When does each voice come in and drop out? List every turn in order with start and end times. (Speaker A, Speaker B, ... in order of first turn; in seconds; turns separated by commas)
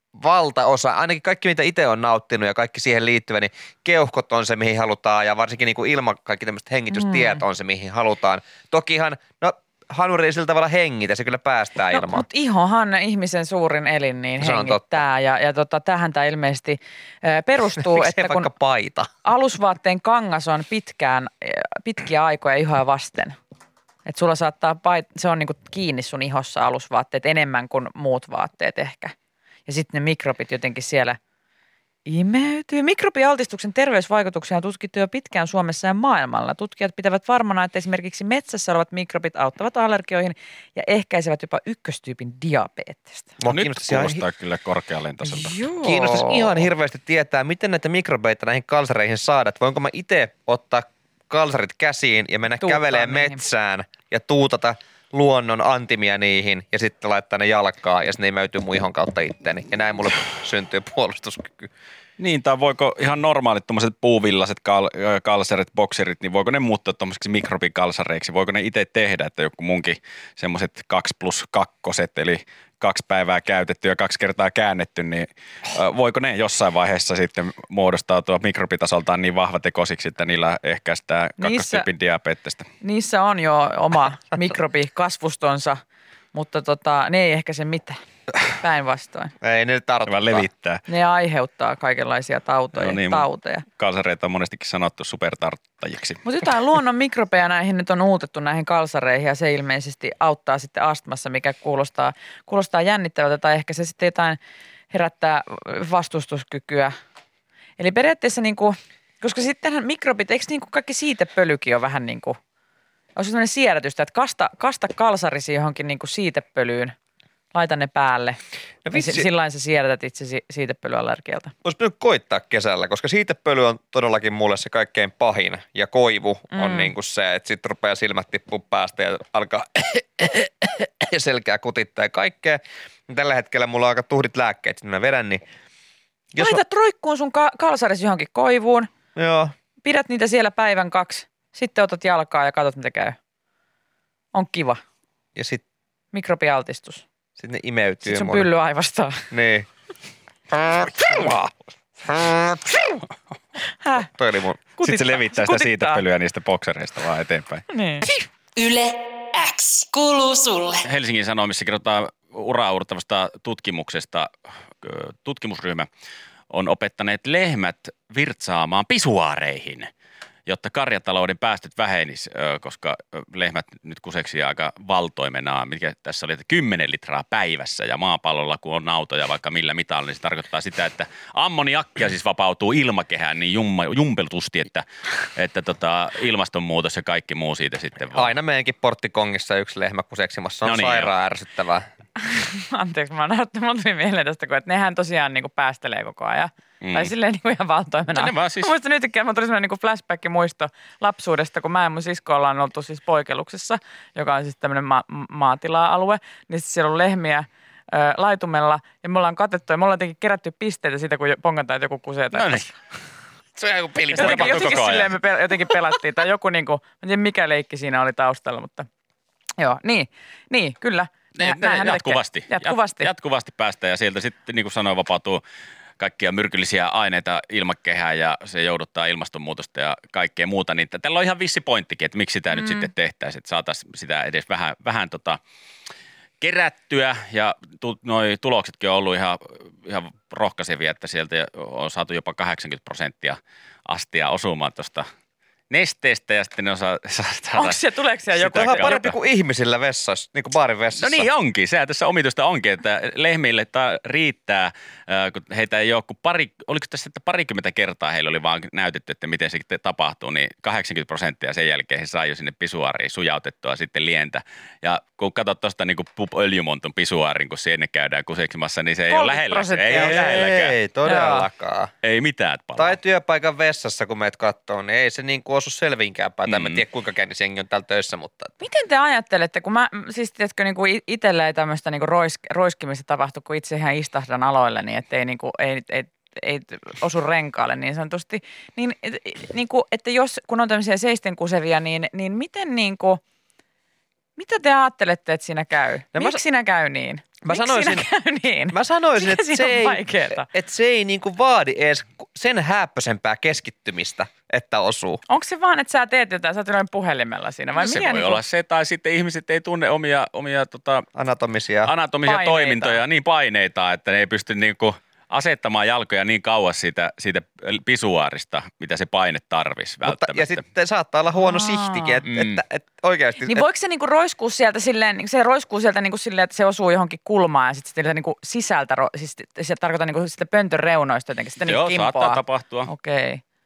Speaker A: 0.1-12.2, Speaker B: 6.9-7.4, Speaker B: 11.9-18.5, Speaker A: 14.4-15.0, Speaker A: 17.8-19.1, Speaker B: 19.2-23.4, Speaker B: 24.1-29.1, Speaker B: 29.7-31.2, Speaker B: 32.1-43.3, Speaker A: 43.4-44.2, Speaker C: 43.5-45.5, Speaker B: 45.2-46.7, Speaker A: 45.8-61.7, Speaker B: 52.6-53.4, Speaker C: 62.2-82.7, Speaker B: 81.4-81.9, Speaker B: 82.8-85.8, Speaker B: 86.3-89.3, Speaker A: 89.4-90.5, Speaker C: 90.1-90.8, Speaker B: 90.9-93.7, Speaker C: 92.8-96.2, Speaker B: 96.2-104.4, Speaker B: 104.9-106.9, Speaker B: 107.8-112.4, Speaker B: 113.2-116.9, Speaker B: 117.5-118.4, Speaker A: 118.8-119.3, Speaker B: 118.9-121.5, Speaker A: 121.6-135.4, Speaker B: 126.5-126.9, Speaker A: 136.3-136.6, Speaker B: 136.4-138.9, Speaker A: 139.2-139.5, Speaker B: 139.8-143.2, Speaker B: 144.3-144.8, Speaker A: 145.4-145.6, Speaker B: 146.1-147.0, Speaker A: 147.4-148.5, Speaker B: 148.0-149.3, Speaker A: 149.3-149.7, Speaker A: 150.5-151.4, Speaker C: 151.0-151.5, Speaker A: 152.1-153.0, Speaker B: 153.8-154.1, Speaker A: 154.1-154.6, Speaker B: 154.8-156.0, Speaker C: 154.8-157.7, Speaker B: 157.7-158.1, Speaker D: 158.6-160.9, Speaker C: 160.8-165.9, Speaker C: 166.5-169.9, Speaker C: 170.5-188.3, Speaker A: 188.2-191.8, Speaker C: 190.7-191.1, Speaker B: 192.2-212.7, Speaker C: 196.8-197.1, Speaker C: 198.1-198.7, Speaker C: 212.3-212.7, Speaker A: 213.6-214.9, Speaker C: 213.9-215.2, Speaker B: 214.1-218.9, Speaker B: 219.6-223.1, Speaker C: 221.4-225.4, Speaker C: 226.0-235.4, Speaker B: 232.6-232.9, Speaker C: 236.4-245.1, Speaker C: 245.7-247.8, Speaker B: 247.6-249.0, Speaker C: 248.4-249.2, Speaker A: 248.4-251.3, Speaker C: 251.0-270.8, Speaker B: 269.1-270.4, Speaker A: 269.9-271.9, Speaker B: 271.1-271.5, Speaker C: 272.0-273.0, Speaker A: 272.8-278.5, Speaker C: 276.5-276.8, Speaker B: 278.6-293.2, Speaker B: 294.4-300.5, Speaker A: 296.1-296.4, Speaker A: 297.4-298.1, Speaker A: 298.7-305.2, Speaker B: 305.3-308.4, Speaker C: 307.8-311.1, Speaker A: 311.2-311.9, Speaker C: 311.9-320.6, Speaker B: 312.2-313.0, Speaker A: 320.1-323.6, Speaker B: 321.4-322.2, Speaker C: 322.3-322.6, Speaker B: 323.4-333.4, Speaker C: 331.6-332.9